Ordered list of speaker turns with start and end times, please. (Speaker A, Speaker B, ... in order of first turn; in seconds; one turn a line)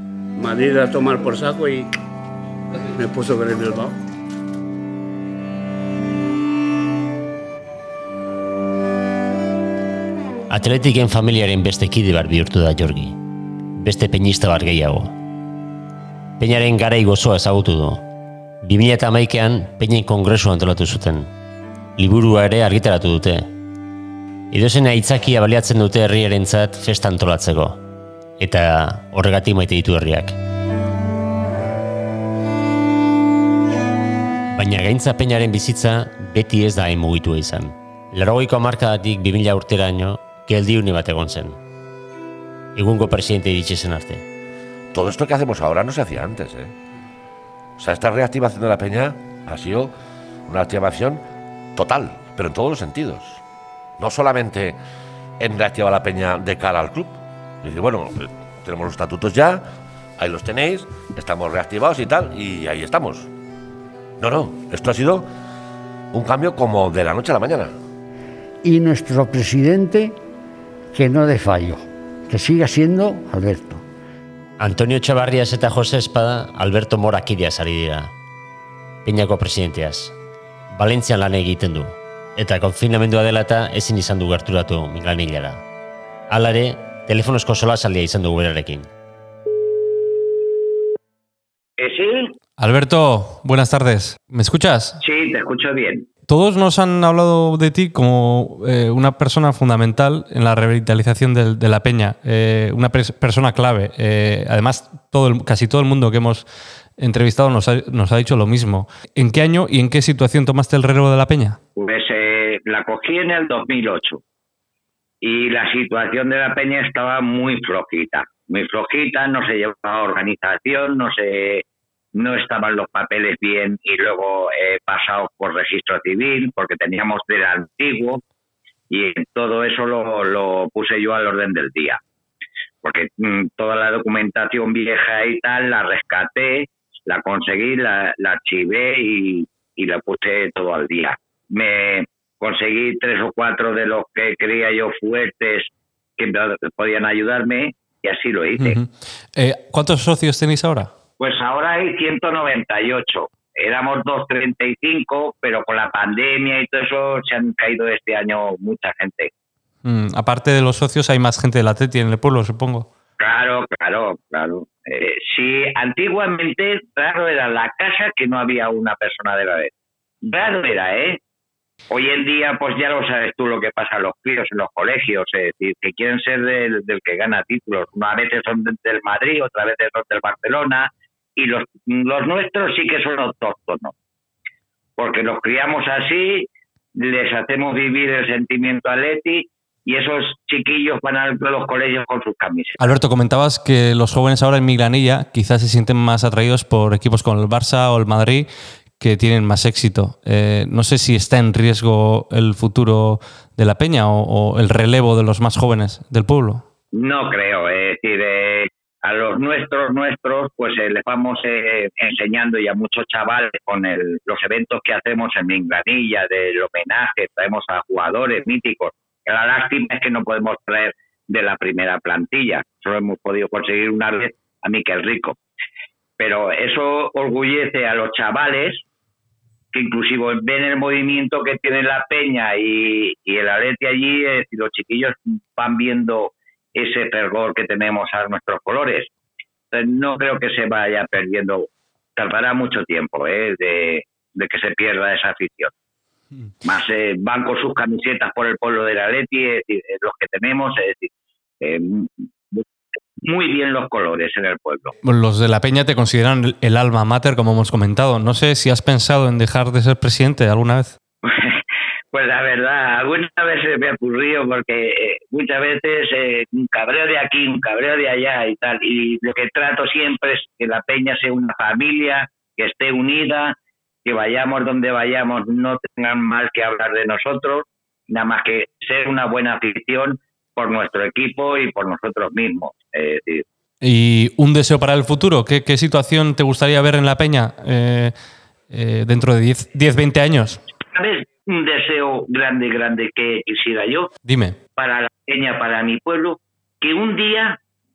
Speaker A: 0.3-1.9
Speaker A: 2.9-4.0
Speaker B: 10.5-13.1
Speaker B: 13.8-15.1
Speaker B: 16.4-18.0
Speaker B: 18.6-21.3
Speaker B: 22.0-23.5
Speaker B: 24.5-27.8
Speaker B: 28.4-30.3
Speaker B: 34.5-41.6
Speaker B: 42.8-44.2
Speaker C: 44.9-46.7
Speaker C: 47.8-49.9
Speaker C: 50.5-51.2
Speaker C: 51.8-53.4
Speaker C: 54.0-54.8
Speaker C: 55.4-59.6
Speaker C: 60.2-63.3
Speaker C: 64.2-65.2
Speaker C: 66.1-67.7
Speaker D: 68.6-70.2
Speaker D: 70.9-73.8
Speaker B: 74.6-78.1
Speaker B: 79.0-80.1
Speaker B: 80.7-85.6
Speaker B: 86.3-88.9
Speaker E: 91.8-92.3
Speaker F: 92.6-95.0
Speaker E: 95.0-96.1
Speaker F: 96.3-106.5
Speaker F: 107.0-111.6
Speaker E: 111.8-114.2
Speaker E: 115.2-121.6
Speaker E: 122.1-128.2
Speaker E: 128.9-132.0
Speaker E: 132.8-148.8
Speaker F: 148.6-150.9
Speaker E: 151.2-159.3
Speaker F: 159.8-162.9
Speaker E: 163.2-169.7
Speaker E: 170.2-171.2
Speaker E: 171.9-183.9
Speaker E: 185.0-192.8
Speaker F: 192.8-198.5
Speaker F: 199.0-206.6
Speaker E: 206.9-225.3
Speaker E: 226.2-228.8
Speaker E: 229.7-239.1
Speaker E: 239.7-245.7
Speaker E: 246.6-251.1
Speaker E: 251.6-252.6
Speaker E: 253.2-254.9
Speaker F: 255.0-260.9
Speaker E: 261.2-261.6
Speaker E: 262.1-283.4
Speaker F: 283.8-288.1
Speaker F: 288.7-290.6
Speaker E: 290.9-294.1
Speaker F: 294.2-294.6
Speaker E: 294.8-297.6